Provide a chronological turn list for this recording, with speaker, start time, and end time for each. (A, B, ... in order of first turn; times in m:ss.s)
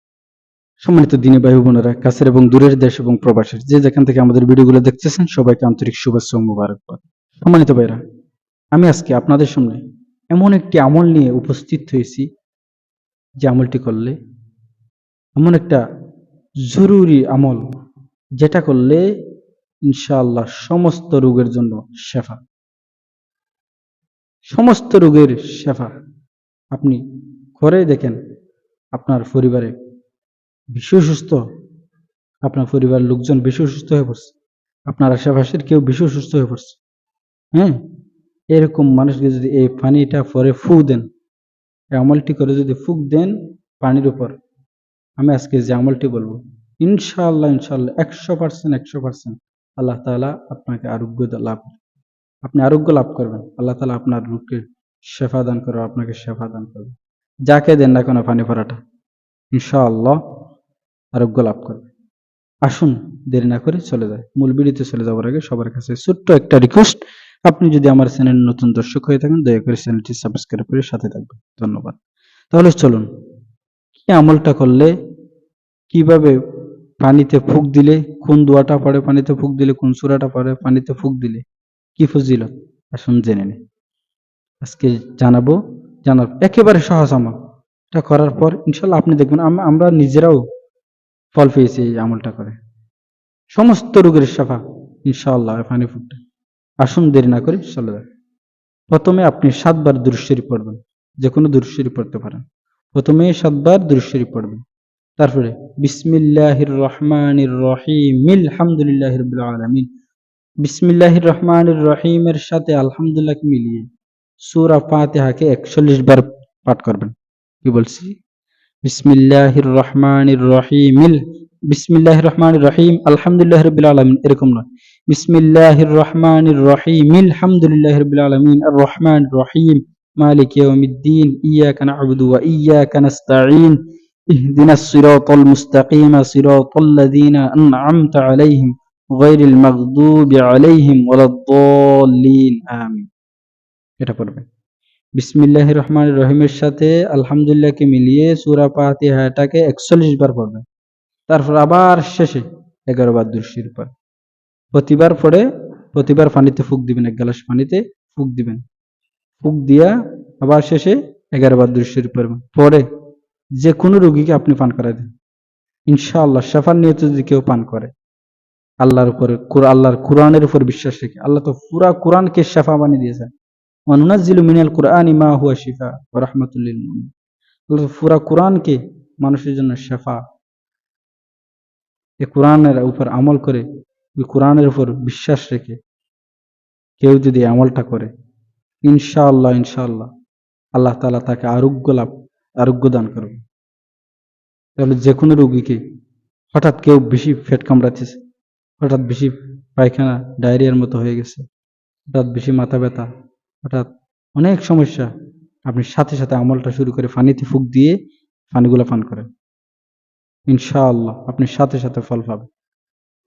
0:00.8-0:08.0 A
0:08.7-0:09.8 A
0:10.3-0:12.3 A
0:13.4-0:14.1 A
0:15.4-0:15.8 A
0:16.7-0:17.6 A
0:18.4-0:19.0 A
0:19.9-0:22.4 A
0:24.4-0:25.9 A
0:26.7-0:27.0 A
0:27.6-0:28.2 A
0:28.9-0:29.7 A
0:30.7-0:31.4 A
0:32.4-0:34.3 A
0:34.9-0:36.8 A
0:37.5-0:37.8 A
0:38.5-0:41.0 A
0:41.9-0:44.4 A
0:45.2-0:51.8 A
0:52.4-0:56.9 A
0:57.5-0:58.8 A
0:59.5-1:00.2 A
1:01.1-1:01.8 A
1:02.6-1:12.0 A
1:12.5-1:13.1 A
1:14.1-1:14.9 A
1:15.9-1:16.3 A
1:17.0-1:21.4 A
1:22.0-1:23.6 A
1:24.6-1:27.4 A
1:27.9-1:30.4 A
1:31.3-1:32.6 A
1:33.5-1:36.2 A
1:36.8-1:38.0 A
1:38.9-1:42.4 A
1:42.9-1:44.6 A
1:45.2-1:49.9 A
1:50.6-1:53.8 A
1:54.4-1:57.1 A
1:57.6-1:58.1 A
1:58.8-2:13.8 A
2:14.3-2:23.1 A
2:24.0-2:24.4 A
2:25.2-2:30.6 A
2:31.3-2:33.9 A
2:34.7-2:38.6 A
2:39.4-2:42.8 A
2:43.6-2:45.1 A
2:45.9-2:47.9 A
2:48.8-2:53.3 A
2:53.9-2:57.1 A
2:57.7-3:00.2 A
3:02.2-3:03.6 A
3:04.2-3:05.8 A
3:07.0-3:08.1 A
3:08.8-3:10.1 A
3:10.8-3:13.4 A
3:14.8-3:15.8 A
3:16.5-3:18.2 A
3:18.8-3:21.4 A
3:22.1-3:23.0 A
3:23.6-3:25.1 A
3:25.7-3:27.9 A
3:28.5-3:29.3 A
3:30.5-3:32.5 A